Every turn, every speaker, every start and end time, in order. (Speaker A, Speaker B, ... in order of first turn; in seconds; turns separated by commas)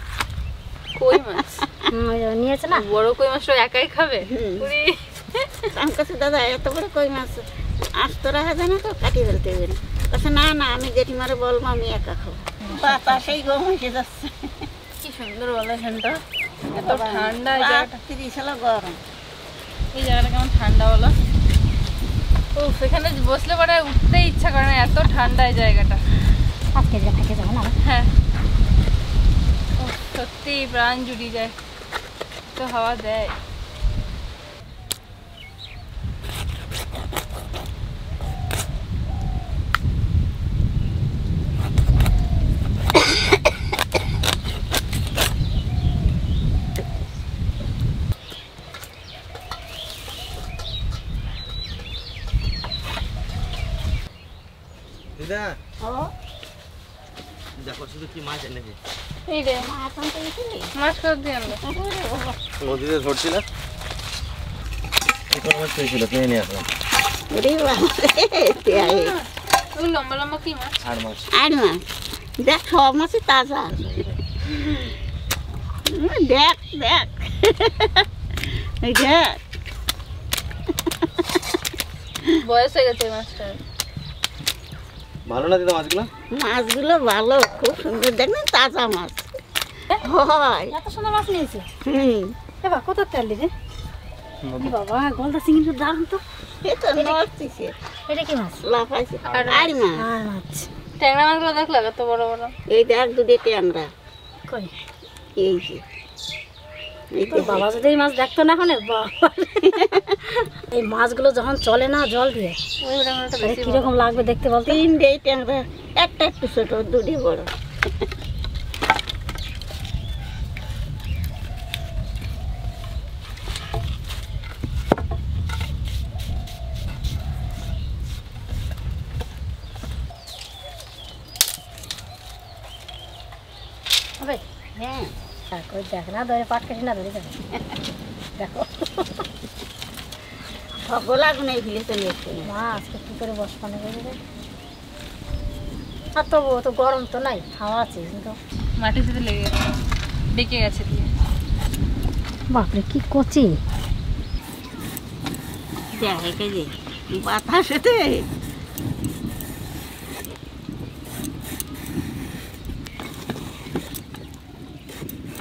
Speaker A: 0.9-1.6, Speaker B: 1.9-2.8, Speaker A: 2.7-5.7, Speaker C: 4.2-4.7, Speaker C: 5.7-14.7, Speaker B: 12.6-13.4, Speaker A: 15.0-16.2, Speaker A: 16.7-18.0, Speaker C: 16.7-19.0, Speaker A: 19.9-21.1, Speaker A: 22.5-26.0, Speaker B: 26.7-27.7, Speaker A: 27.8-28.1, Speaker A: 29.8-31.5, Speaker A: 32.5-33.4, Speaker D: 55.2-55.6, Speaker C: 55.8-56.1, Speaker D: 57.6-58.8, Speaker A: 59.3-59.7, Speaker C: 59.6-60.7, Speaker A: 60.8-61.6, Speaker C: 61.5-62.4, Speaker D: 62.6-63.4, Speaker D: 65.3-66.7, Speaker C: 67.3-69.1, Speaker A: 68.7-70.8, Speaker D: 70.8-71.2, Speaker C: 71.3-71.8, Speaker C: 72.4-73.8, Speaker D: 73.7-74.2, Speaker A: 74.6-74.9, Speaker C: 75.9-79.4, Speaker C: 80.9-81.2, Speaker A: 82.4-83.6, Speaker D: 85.2-86.1, Speaker C: 86.3-89.2, Speaker C: 90.0-90.7, Speaker B: 90.7-91.7, Speaker C: 91.8-92.3, Speaker B: 92.6-93.5, Speaker D: 94.4-94.7, Speaker B: 94.5-96.2, Speaker C: 96.6-97.7, Speaker B: 96.9-97.2, Speaker B: 98.1-98.6, Speaker C: 98.6-100.0, Speaker A: 99.3-99.8, Speaker B: 100.0-100.7, Speaker A: 101.0-102.5, Speaker C: 102.7-103.9, Speaker C: 105.4-105.8, Speaker C: 107.1-107.7, Speaker B: 107.3-109.7, Speaker C: 109.7-110.2, Speaker B: 110.7-112.6, Speaker A: 112.8-114.2, Speaker B: 113.4-114.8, Speaker C: 114.7-117.5, Speaker C: 134.8-135.1, Speaker B: 135.5-137.3, Speaker B: 138.4-139.2, Speaker C: 140.8-142.5, Speaker B: 142.4-144.2, Speaker B: 146.2-148.4, Speaker A: 148.8-149.6, Speaker A: 150.3-151.1, Speaker B: 152.5-153.6, Speaker C: 155.9-158.2